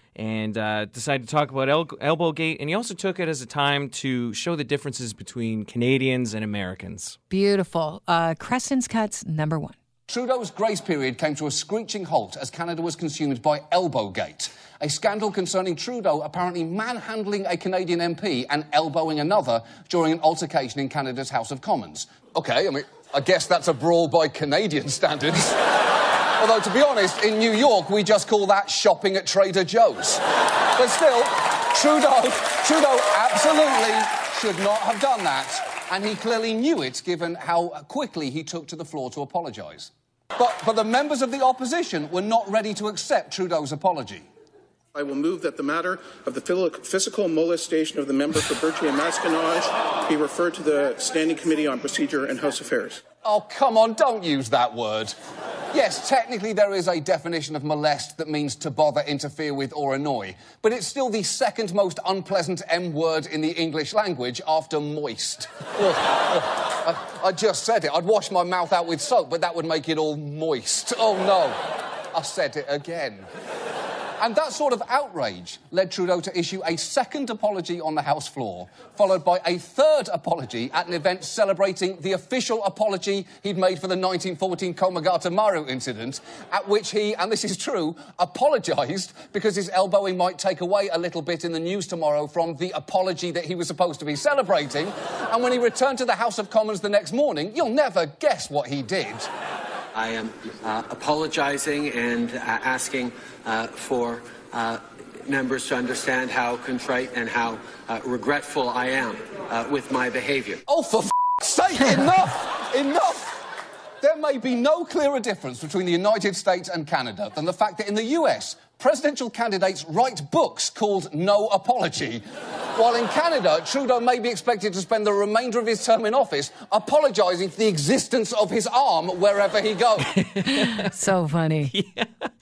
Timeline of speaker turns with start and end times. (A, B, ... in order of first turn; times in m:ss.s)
0:00.2-0:07.2 A
0:07.3-0:09.8 B
0:10.1-0:25.6 C
0:26.4-0:30.2 C
0:30.8-0:44.3 C
0:45.0-0:53.0 D
0:53.2-0:55.1 C
0:55.7-1:11.6 C
1:12.1-1:13.3 C
1:14.2-1:39.3 C
1:39.9-1:50.6 E
1:50.7-1:53.4 C
1:54.0-2:02.2 C
2:02.7-2:10.1 C
2:10.2-2:10.9 A
2:10.5-2:11.7 B
2:11.7-2:12.2 A